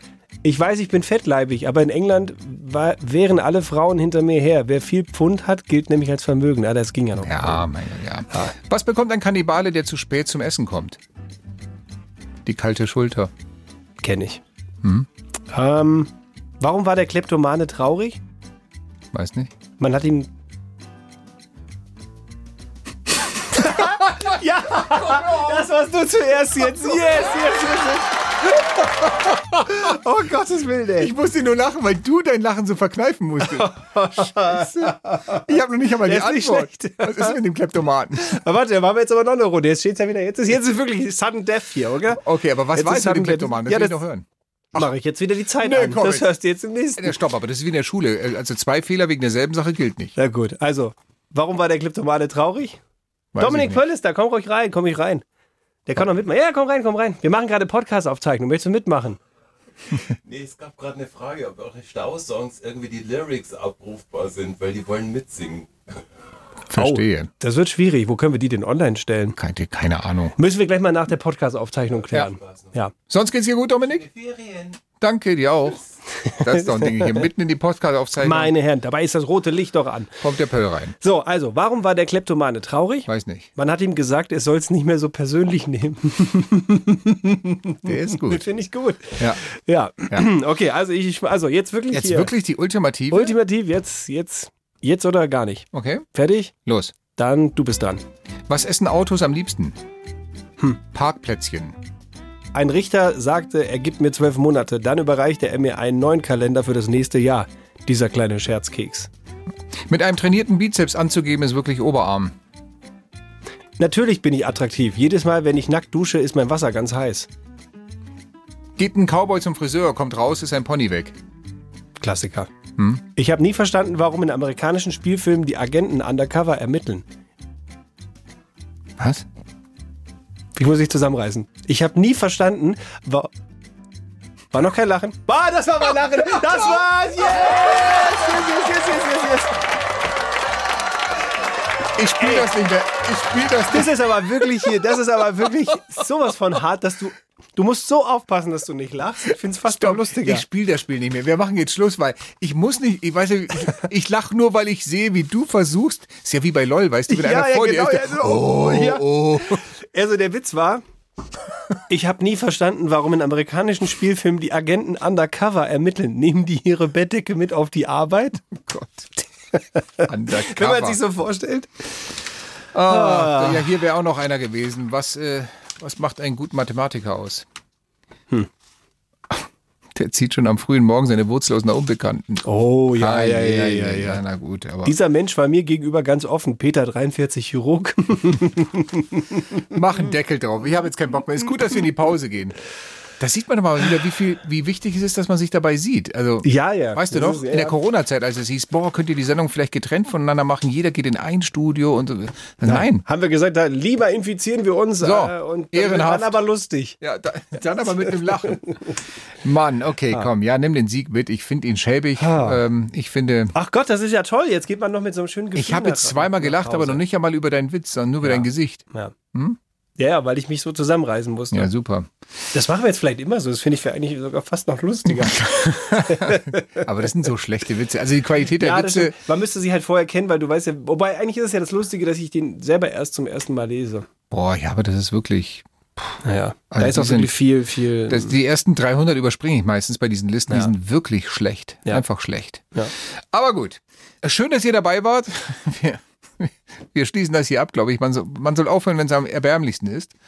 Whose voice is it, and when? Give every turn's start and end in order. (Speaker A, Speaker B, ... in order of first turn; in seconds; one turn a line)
Speaker A: 0.4-7.7
Speaker B: 7.2-11.0
Speaker B: 12.4-13.3
Speaker A: 14.0-14.4
Speaker B: 14.8-15.1
Speaker A: 15.5-18.2
Speaker B: 19.1-19.5
Speaker A: 19.8-20.3
Speaker A: 23.5-28.0
Speaker B: 23.8-24.0
Speaker B: 25.0-25.6
Speaker B: 27.5-27.8
Speaker B: 29.1-29.7
Speaker A: 29.5-31.1
Speaker B: 31.0-38.4
Speaker A: 33.4-35.4
Speaker A: 36.0-37.4
Speaker A: 38.2-44.0
Speaker B: 42.1-44.9
Speaker A: 44.7-47.1
Speaker B: 45.6-46.3
Speaker B: 47.0-50.1
Speaker A: 50.1-52.8
Speaker B: 53.3-53.8
Speaker A: 53.4-55.2
Speaker A: 55.9-59.2
Speaker C: 60.2-65.8
Speaker B: 66.7-67.3
Speaker A: 66.7-69.4
Speaker B: 69.4-70.3
Speaker A: 70.3-72.9
Speaker C: 72.0-72.8
Speaker B: 73.1-74.0
Speaker C: 73.8-75.0
Speaker B: 75.0-75.8
Speaker A: 76.2-77.3
Speaker B: 76.3-78.5
Speaker A: 78.2-80.2
Speaker B: 80.2-81.0
Speaker A: 81.0-92.3
Speaker B: 83.0-83.5
Speaker B: 87.8-88.5
Speaker B: 91.9-93.3
Speaker A: 93.1-96.5
Speaker B: 95.7-96.0
Speaker B: 96.6-97.0
Speaker A: 97.1-98.0
Speaker B: 98.5-99.8
Speaker B: 100.9-101.8
Speaker A: 102.5-109.1
Speaker B: 109.9-112.3
Speaker A: 113.8-117.3
Speaker B: 118.8-121.1
Speaker A: 122.0-122.5
Speaker A: 123.1-127.0
Speaker B: 129.0-129.2
Speaker A: 130.6-133.3
Speaker A: 134.5-139.6
Speaker B: 141.9-143.9
Speaker A: 142.2-142.5
Speaker A: 143.7-150.4
Speaker B: 149.7-159.6
Speaker A: 157.1-160.8
Speaker A: 161.9-168.4
Speaker B: 168.5-169.1
Speaker A: 169.8-171.7
Speaker B: 170.1-171.0
Speaker B: 172.7-177.4
Speaker A: 172.8-173.7
Speaker B: 179.9-182.4
Speaker A: 182.4-184.2
Speaker B: 182.9-184.9
Speaker A: 184.8-189.4
Speaker B: 189.7-192.6
Speaker B: 193.2-203.0
Speaker A: 196.4-197.8
Speaker A: 202.6-207.0
Speaker B: 205.0-206.4
Speaker B: 207.0-208.7
Speaker B: 209.4-213.5
Speaker A: 212.2-212.6
Speaker A: 213.5-217.0
Speaker B: 215.5-219.6
Speaker A: 218.2-219.1
Speaker A: 220.0-221.7
Speaker B: 221.5-222.1
Speaker A: 222.5-226.8
Speaker B: 225.1-229.1
Speaker A: 228.6-234.1
Speaker B: 234.3-236.2
Speaker A: 236.2-238.3
Speaker B: 236.7-237.4
Speaker B: 238.1-242.7
Speaker B: 243.3-250.1